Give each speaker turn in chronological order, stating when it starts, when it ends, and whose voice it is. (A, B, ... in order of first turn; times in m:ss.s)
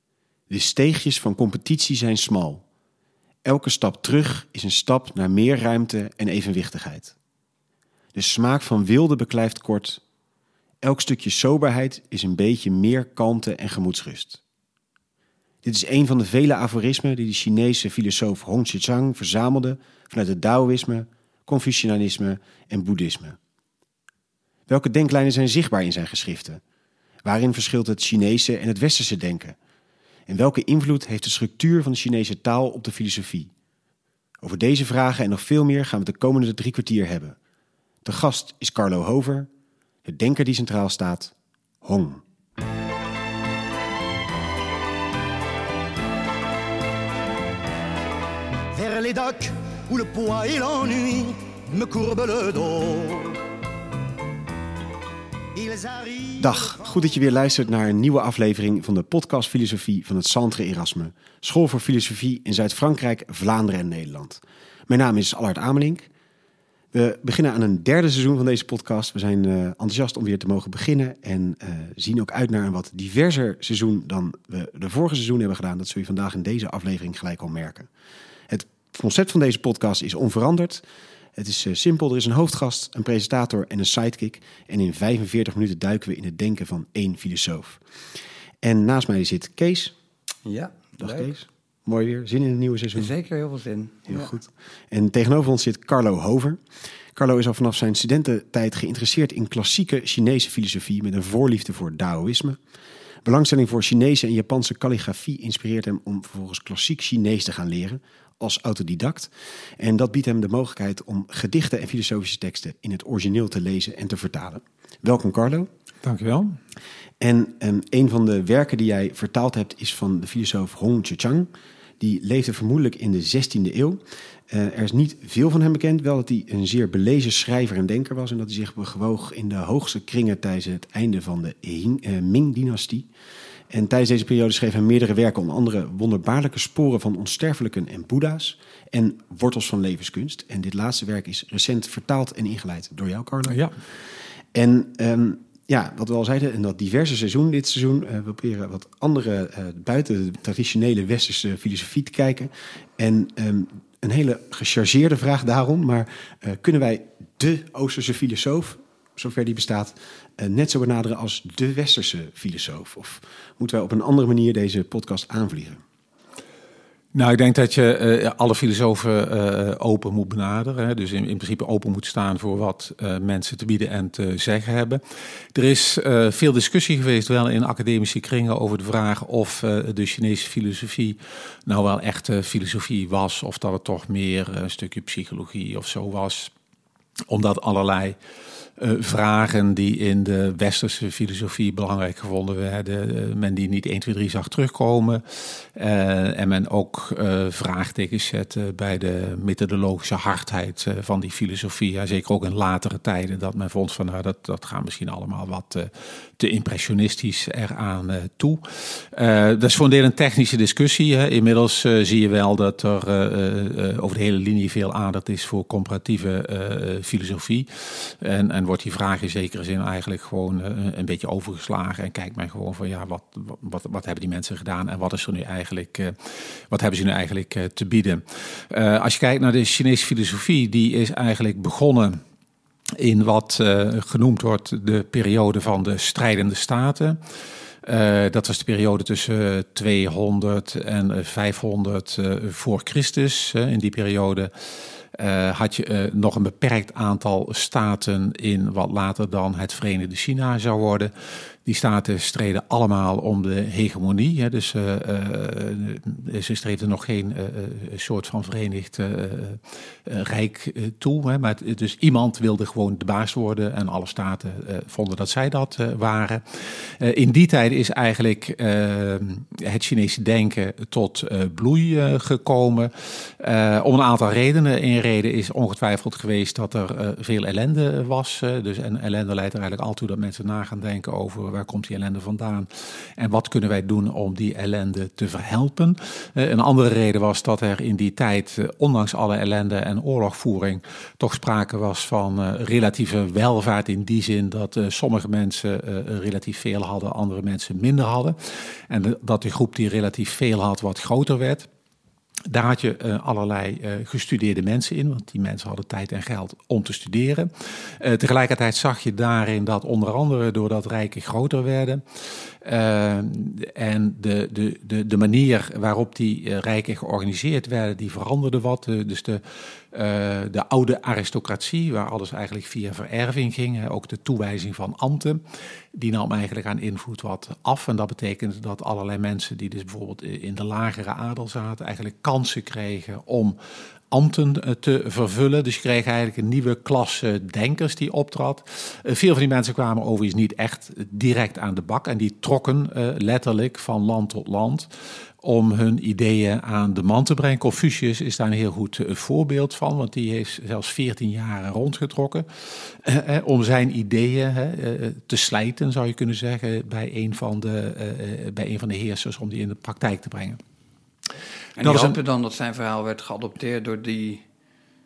0:00.5-0:02.6 A
0:03.4-0:07.1 A
0:08.1-0:10.0 A
0:10.8-0:14.4 A
0:15.6-0:23.4 A
0:24.7-0:26.6 A
0:27.2-0:29.6 A
0:30.3-0:33.5 A
0:34.4-0:37.4 A
0:38.0-0:39.5 A
0:40.0-0:42.2 A
0:48.7-0:53.4 B
0:55.5-0:57.0 B
0:56.4-1:06.1 A
1:06.9-1:17.9 A
1:18.5-1:20.8 A
1:21.4-1:27.8 A
1:28.6-1:29.9 A
1:30.4-1:31.3 C
1:31.0-1:33.1 A
1:32.9-1:34.3 C
1:34.1-1:36.6 A
1:37.1-1:42.6 A
1:43.2-1:55.7 A
1:56.0-1:56.6 D
1:57.2-2:13.1 A
2:13.7-2:23.6 A
2:23.5-2:23.7 D
2:24.5-2:45.8 A
2:47.1-2:55.0 D
2:55.5-3:06.5 D
3:07.3-3:08.2 D
3:08.8-3:52.2 D
3:53.0-3:57.2 D
3:57.8-4:04.5 D
4:05.1-4:11.1 D
4:11.6-5:01.7 D
5:02.5-5:25.4 D
5:25.9-5:33.6 D
5:34.1-5:44.9 D
5:45.4-6:00.6 D
6:01.8-6:04.4 C
6:01.8-6:02.2 D